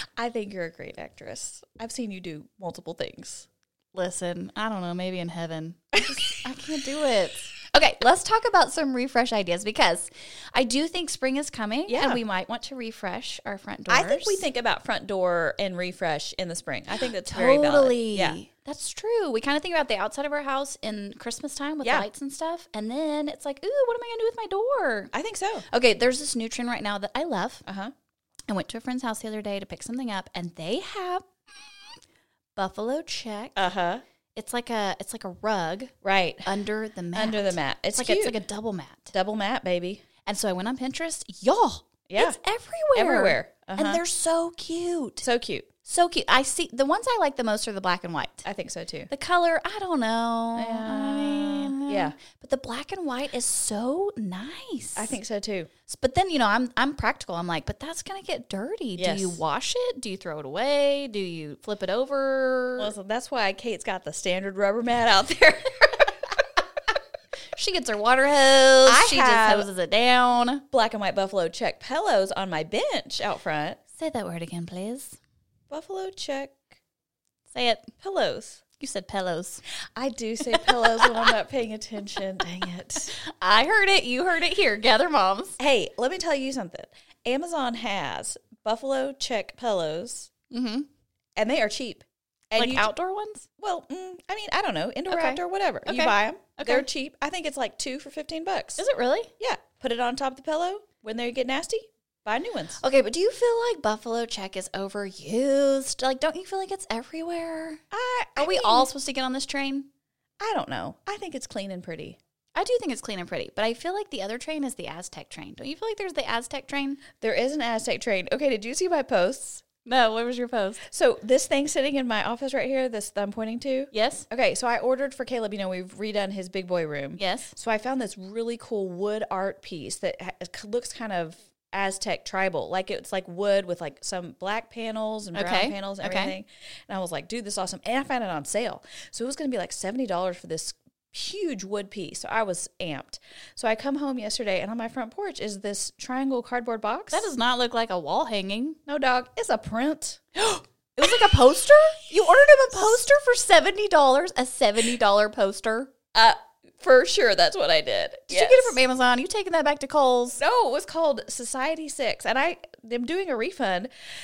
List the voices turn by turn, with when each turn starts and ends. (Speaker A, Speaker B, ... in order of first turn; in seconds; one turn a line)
Speaker A: 0.2-3.5
Speaker B: 3.9-14.4
Speaker A: 11.9-12.2
Speaker A: 13.9-18.4
Speaker B: 17.3-25.1
Speaker A: 25.1-25.6
Speaker B: 25.7-27.6
Speaker A: 27.7-27.9
Speaker B: 28.5-31.3
Speaker B: 32.6-33.6
Speaker A: 33.6-34.0
Speaker B: 34.4-35.9
Speaker A: 36.0-36.5
Speaker B: 36.5-39.1
Speaker A: 37.1-38.4
Speaker A: 39.1-40.0
Speaker B: 40.2-45.2
Speaker A: 42.1-42.4
Speaker A: 43.0-44.0
Speaker A: 45.2-45.7
Speaker B: 45.9-48.5
Speaker A: 48.4-49.1
Speaker B: 49.1-55.2
Speaker A: 50.6-52.2
Speaker A: 55.0-55.7
Speaker B: 55.9-62.9
Speaker A: 59.0-59.4
Speaker A: 62.8-66.4
Speaker B: 67.6-70.6
Speaker A: 68.9-69.7
Speaker A: 70.7-73.8
Speaker B: 74.0-75.2
Speaker A: 75.7-76.7
Speaker B: 77.5-77.9
Speaker A: 78.0-78.6
Speaker B: 78.8-79.6
Speaker A: 80.0-83.1
Speaker B: 80.5-81.3
Speaker B: 82.4-85.6
Speaker A: 85.6-90.3
Speaker B: 90.5-90.9
Speaker A: 91.4-92.9
Speaker B: 92.5-93.5
Speaker A: 93.6-98.8
Speaker B: 95.1-96.9
Speaker B: 98.8-99.3
Speaker A: 99.4-102.8
Speaker B: 102.8-107.8
Speaker A: 107.9-108.9
Speaker B: 108.4-109.9
Speaker A: 110.4-112.2
Speaker B: 112.5-117.0
Speaker A: 117.2-119.6
Speaker B: 119.8-120.8
Speaker A: 120.9-147.3
Speaker B: 123.9-124.3
Speaker B: 127.2-127.5
Speaker B: 135.3-136.3
Speaker B: 147.1-148.8
Speaker A: 148.9-151.2
Speaker B: 151.0-155.9
Speaker A: 156.1-158.8
Speaker B: 158.3-160.4
Speaker A: 160.4-163.9